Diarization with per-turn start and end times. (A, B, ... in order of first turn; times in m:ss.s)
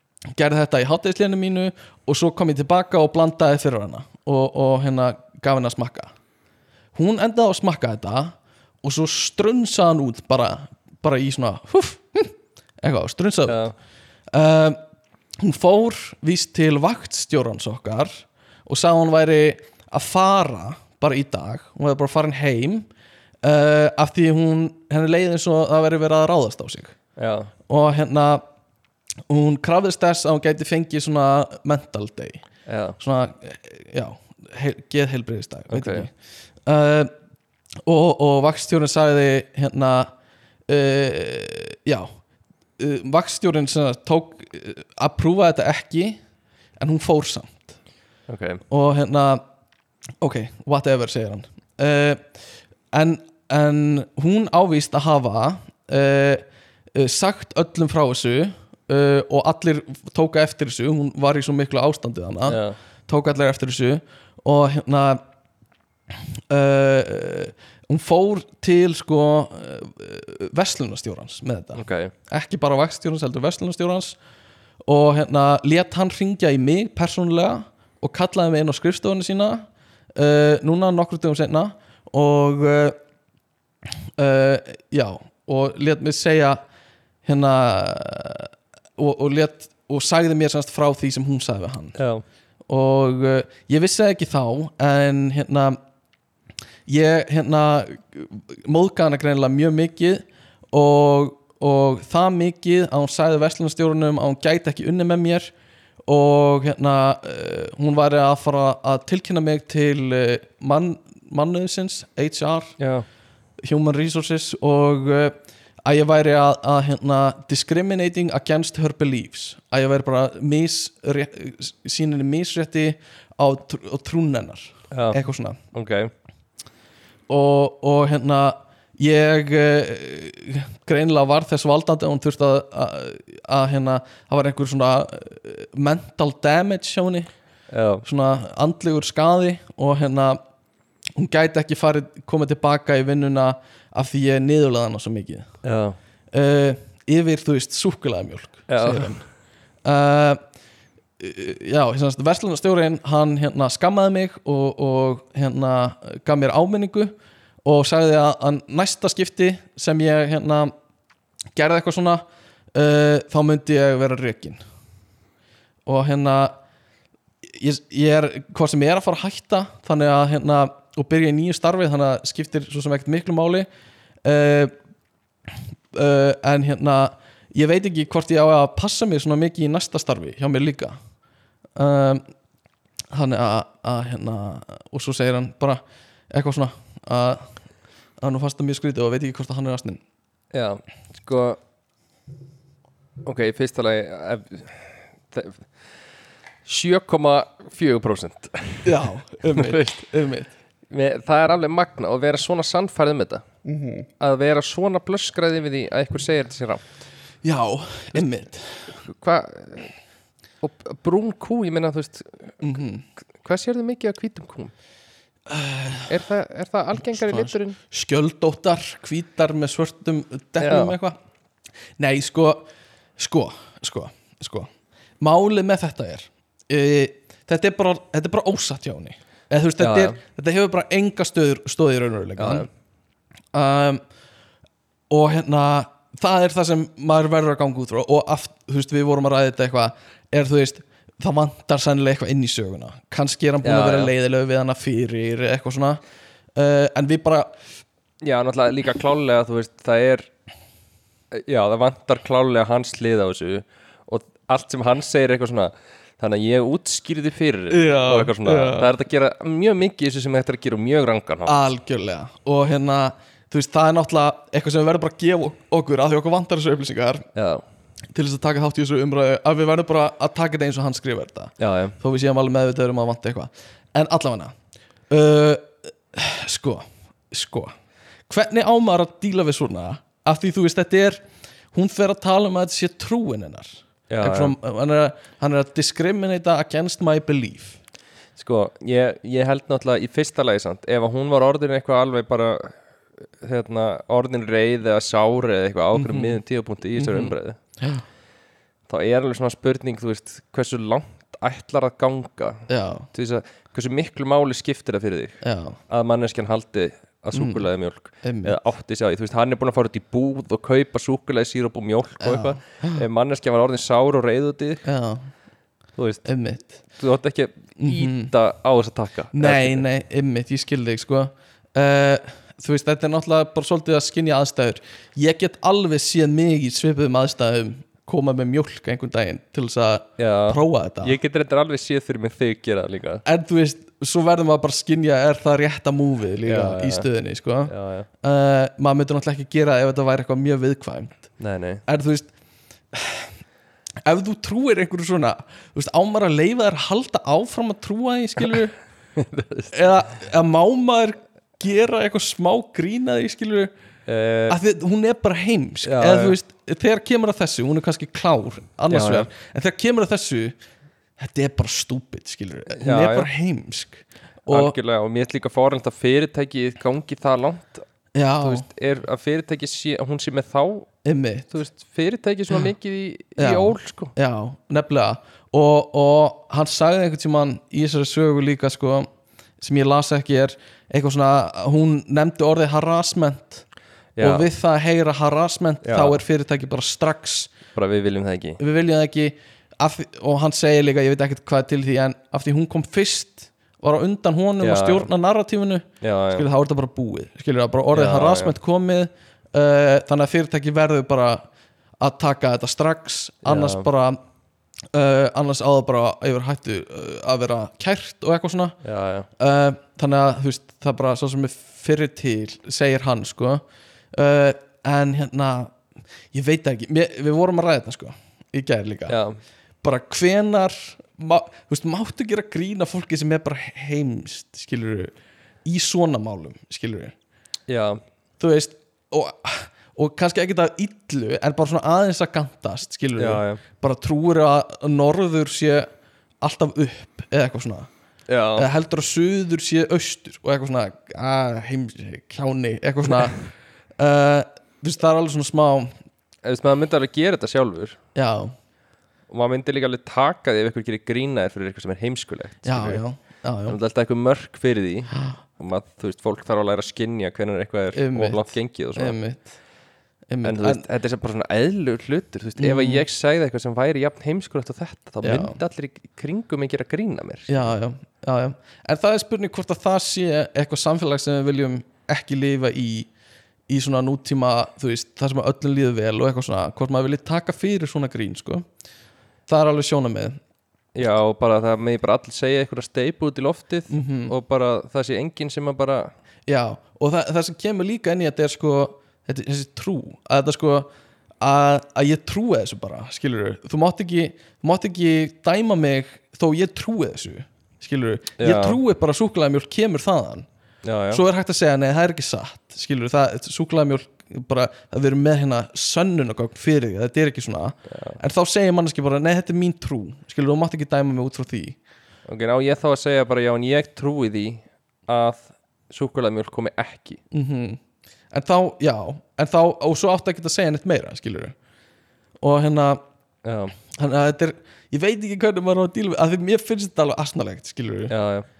0:00.4-0:06.1 A
0:07.0-0:13.7 A
0:13.5-0:13.7 B
0:14.3-0:14.8 A
0:15.4-0:22.9 A
0:23.4-0:27.0 A
0:27.2-0:27.5 B
0:27.7-0:28.4 A
0:29.3-0:32.4 A
0:32.7-0:33.0 B
0:33.0-0:36.1 A
0:35.7-0:36.1 B
0:36.7-0:37.1 A
0:37.8-0:40.1 A
0:40.7-0:42.1 A
0:42.8-0:46.2 A
0:46.8-0:47.8 A
0:48.3-0:48.6 B
0:48.7-0:49.4 A
0:50.2-0:52.2 A
0:52.9-1:05.2 A
1:02.5-1:02.8 B
1:06.5-1:14.2 A
1:11.8-1:12.1 B
1:14.8-1:23.0 A
1:24.2-1:26.6 A
1:27.2-1:32.0 A
1:32.0-1:32.2 B
1:32.7-1:35.8 A
1:36.9-1:45.5 A
1:46.1-1:52.8 A
1:52.8-1:53.1 B
1:53.6-2:05.6 A
2:04.9-2:05.2 B
2:05.7-2:06.1 B
2:07.3-2:17.3 A
2:17.7-2:18.0 B
2:18.0-2:20.4 A
2:21.2-2:25.5 A
2:25.6-2:26.0 B
2:26.3-2:29.2 A
2:28.7-2:29.2 B
2:29.8-2:30.4 A
2:31.2-2:40.7 A
2:41.6-2:44.6 A
2:45.9-2:46.6 A
2:47.5-2:53.7 A
2:54.2-2:54.7 A
2:55.9-3:01.0 A
3:01.8-3:02.2 A
3:03.1-3:07.5 A
3:08.2-3:10.0 A
3:10.5-3:11.6 B
3:13.2-3:15.7 B
3:16.6-3:20.0 B
3:18.8-3:20.5 A
3:20.9-3:23.4 B
3:24.2-3:26.8 B
3:27.4-3:28.9 A
3:28.9-3:29.9 B
3:30.6-3:32.8 B
3:32.6-3:33.0 A
3:33.4-3:34.7 B
3:35.5-3:36.1 A
3:36.1-3:37.8 B
3:37.1-3:41.2 A
3:40.6-3:41.0 B
3:42.0-3:44.7 A
3:45.2-3:52.7 A
3:49.8-3:50.2 B
3:52.4-3:52.7 B
3:53.5-3:54.0 A
3:55.1-4:06.0 A
4:03.6-4:04.1 B
4:06.6-4:07.5 A
4:08.2-4:10.3 B
4:11.3-4:21.7 B
4:17.7-4:18.9 A
4:21.5-4:27.3 A
4:27.4-4:27.6 B
4:28.1-4:34.5 A
4:31.6-4:32.0 B
4:35.1-4:37.7 A
4:38.3-4:41.2 A
4:41.7-4:47.8 A
4:44.1-4:44.6 B
4:48.4-4:57.6 B
4:55.9-4:56.4 A
4:57.0-4:58.0 A
4:58.9-5:14.8 B
5:02.7-5:03.1 A
5:05.4-5:05.8 A
5:07.3-5:07.6 A
5:08.2-5:08.6 A
5:12.2-5:13.0 A
5:14.8-5:15.3 A
5:16.0-5:16.3 B
5:16.2-5:16.8 A
5:17.0-5:19.8 B
5:17.8-5:18.3 A
5:19.3-5:31.2 A
5:30.2-5:33.2 B
5:33.2-5:41.3 A
5:36.4-5:37.1 B
5:37.7-5:38.1 B
5:41.4-5:41.8 B
5:41.9-5:42.3 A
5:42.9-5:43.3 A
5:44.0-5:48.8 A
5:49.2-5:49.7 B
5:49.7-5:53.7 A
5:54.1-5:54.6 B
5:54.5-6:00.6 A
5:55.8-5:56.4 B
5:58.9-5:59.3 B
6:01.2-6:04.8 A
6:02.8-6:03.3 B
6:04.5-6:07.9 B
6:08.1-6:08.7 A
6:08.4-6:10.9 B
6:11.0-6:11.5 A
6:11.5-6:14.1 B
6:13.4-6:19.1 A
6:19.6-6:23.6 A
6:24.2-6:24.5 B
6:24.2-6:27.6 A
6:25.8-6:26.2 B
6:27.7-6:28.6 B
6:28.6-6:41.4 A
6:34.6-6:35.1 B
6:36.0-6:36.5 B
6:37.9-6:38.6 B
6:42.0-6:44.2 A
6:43.4-6:43.9 B
6:44.9-6:48.8 A
6:48.8-6:49.3 B
6:49.4-6:53.6 A
6:54.1-6:55.7 A
6:56.3-6:59.2 A
6:59.1-6:59.4 B
6:59.8-7:05.1 A
7:05.6-7:07.1 A
7:07.7-7:08.0 B
7:08.4-7:15.9 A
7:13.2-7:13.6 B
7:16.4-7:17.9 A
7:18.3-7:18.7 B
7:18.6-7:25.9 A
7:26.4-7:28.0 B
7:28.2-7:28.5 A
7:29.3-7:33.0 B
7:32.6-7:33.8 A
7:33.7-7:39.2 B
7:37.9-7:39.6 A
7:40.3-7:40.8 A
7:40.4-7:47.7 B
7:42.6-7:43.0 A
7:45.2-7:45.6 A
7:47.5-7:53.1 A
7:53.7-7:58.7 A
7:59.5-8:00.4 A
8:01.0-8:06.1 B
8:03.9-8:04.4 A
8:06.5-8:10.9 A
8:11.4-8:20.5 A
8:18.4-8:18.8 B
8:20.8-8:21.2 B
8:21.1-8:31.8 A
8:27.9-8:28.2 B
8:32.3-8:37.2 B
8:37.3-8:37.8 A
8:38.3-8:41.6 A
8:42.4-8:43.0 A
8:43.4-8:43.8 B
8:43.9-8:48.1 A
8:48.1-8:48.5 B